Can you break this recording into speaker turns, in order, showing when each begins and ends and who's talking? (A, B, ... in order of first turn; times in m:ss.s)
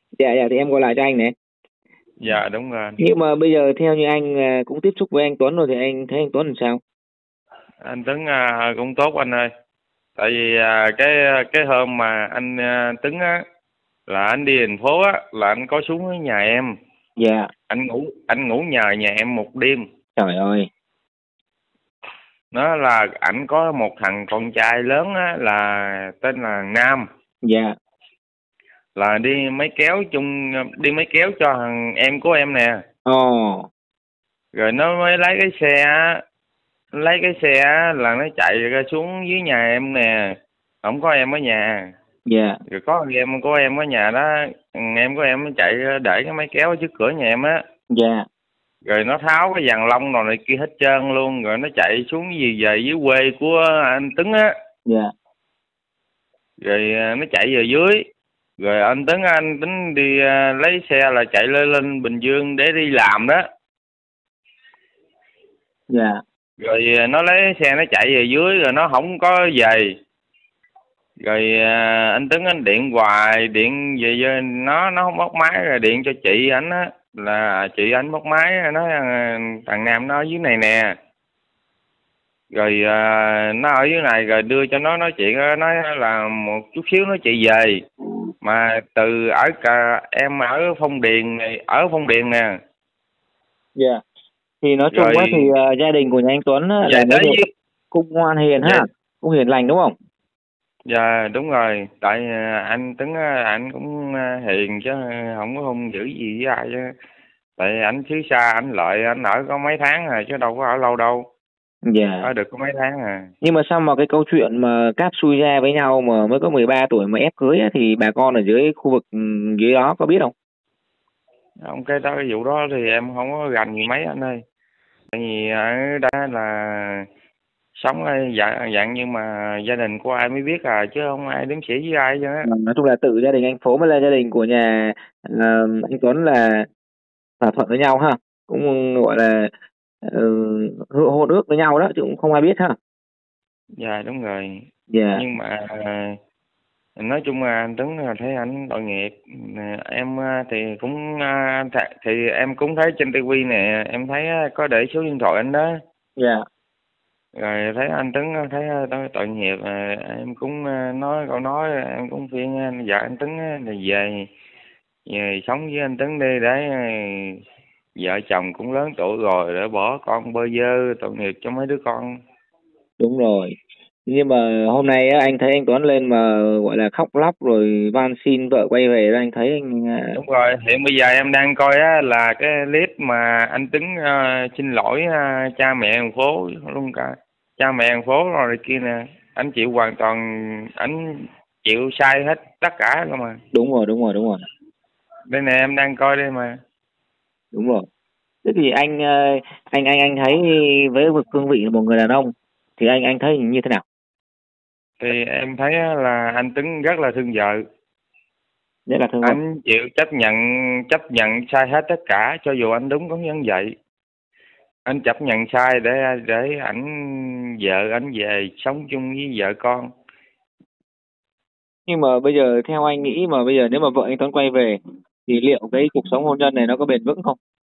0:00.2-0:01.3 A
0:02.2-0:03.0 B
0:03.0-0:06.8 A
0:07.8-0:09.5 B
0:10.2-0:13.4 B
0:14.1-0:16.7 B
0:17.2-0:17.5 A
0:17.7-0:19.8 B
0:20.2-0:20.7 A
0:22.5-0:27.1 B
0:27.4-0:27.7 A
0:29.0-0:32.8 B
0:33.0-0:33.7 A
0:34.5-0:36.2 B
0:37.0-0:41.9 B
0:42.3-0:42.6 A
0:42.7-0:47.6 B
0:47.9-0:48.2 A
0:48.8-0:54.5 B
0:54.8-0:55.1 A
0:56.6-0:58.0 B
0:58.6-1:03.4 B
1:05.9-1:06.2 A
1:06.6-1:09.9 B
1:11.2-1:20.9 B
1:22.5-1:27.8 B
1:28.4-1:32.5 B
1:33.8-1:34.0 A
1:34.6-1:37.4 A
1:34.9-1:35.5 B
1:36.8-1:37.5 B
1:37.9-1:39.9 A
1:40.9-1:46.9 B
1:47.6-1:51.3 B
1:51.8-1:52.3 A
1:52.2-1:53.3 B
1:53.4-2:00.3 A
2:01.6-2:04.4 B
2:05.1-2:07.0 B
2:07.8-2:12.5 B
2:12.4-2:16.7 A
2:17.4-2:19.5 A
2:20.0-2:22.8 A
2:23.8-2:26.2 B
2:24.9-2:25.2 A
2:27.0-2:35.7 B
2:36.2-2:36.4 A
2:37.4-2:44.3 B
2:45.1-2:47.4 B
2:48.0-2:52.2 B
2:53.0-3:00.2 A
3:00.2-3:13.4 B
3:13.5-3:14.4 A
3:15.3-3:16.5 B
3:17.5-3:17.9 A
3:18.4-3:23.8 A
3:25.0-3:27.6 B
3:28.9-3:29.4 A
3:29.2-3:33.7 B
3:34.8-3:39.9 B
3:41.9-3:47.4 A